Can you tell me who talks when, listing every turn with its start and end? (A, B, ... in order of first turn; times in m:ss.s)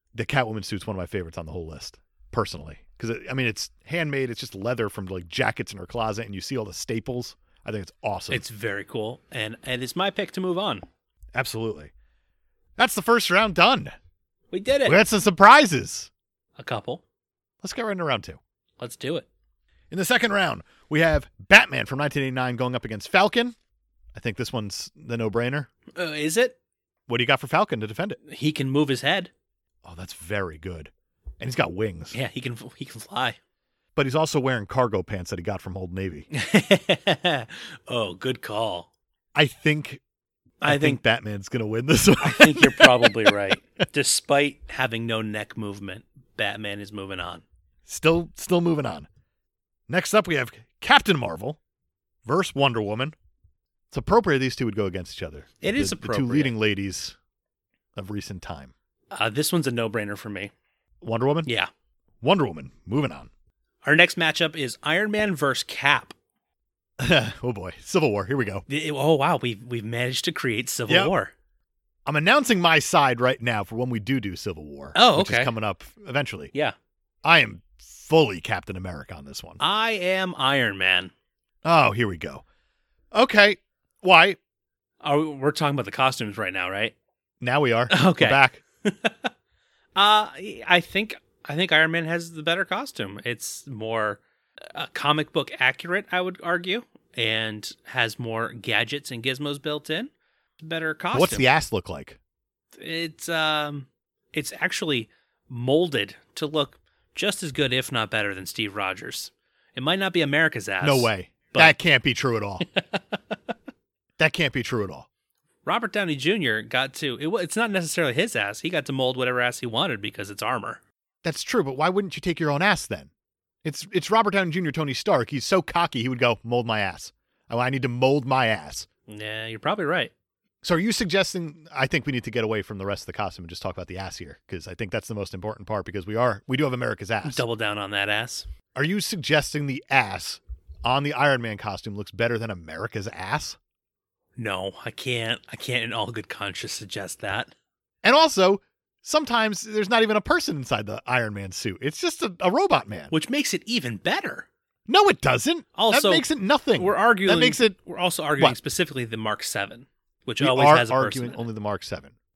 0:00.1-0:08.4 A
0:08.3-0:10.8 B
0:11.3-0:11.9 A
0:12.8-0:13.9 A
0:14.5-0:15.0 B
0:14.8-0:16.1 A
0:16.6-0:17.0 B
0:17.6-0:18.4 A
0:18.8-0:19.2 B
0:19.9-0:23.6 A
0:24.1-0:25.7 A
0:25.9-0:26.6 B
0:27.1-0:28.2 A
0:28.2-0:29.3 B
0:29.8-0:32.2 A
0:32.1-0:33.4 B
0:34.0-0:36.3 A
0:36.3-0:38.9 B
0:39.3-0:40.0 A
0:40.6-0:41.0 B
0:40.7-0:43.5 A
0:42.2-0:47.4 B
0:47.9-0:49.1 A
0:49.9-0:51.6 A
0:52.2-0:53.1 A
0:53.9-0:57.2 A
0:55.6-0:56.5 B
0:57.9-0:58.7 A
0:59.1-1:00.5 B
1:01.0-1:01.5 A
1:02.2-1:03.3 A
1:03.8-1:06.1 B
1:07.0-1:08.6 A
1:08.7-1:11.3 B
1:10.9-1:11.1 A
1:12.0-1:16.5 A
1:14.9-1:15.5 B
1:17.2-1:19.6 A
1:19.6-1:21.1 B
1:21.6-1:22.4 A
1:23.1-1:24.4 A
1:25.0-1:26.9 B
1:27.4-1:28.6 A
1:27.9-1:29.3 B
1:30.0-1:34.2 B
1:34.7-1:41.5 B
1:41.1-1:42.2 A
1:42.8-1:51.7 B
1:50.8-1:52.6 A
1:52.7-1:53.4 B
1:54.2-1:55.1 A
1:55.6-2:00.8 B
2:01.2-2:03.1 A
2:03.6-2:08.9 A
2:09.1-2:10.1 B
2:10.6-2:17.4 A
2:17.2-2:18.5 B
2:18.7-2:23.6 A
2:24.4-2:27.5 B
2:28.0-2:33.1 A
2:33.1-2:34.5 B
2:34.9-2:37.8 A
2:35.7-2:36.2 B
2:36.8-2:41.4 B
2:40.4-2:42.1 A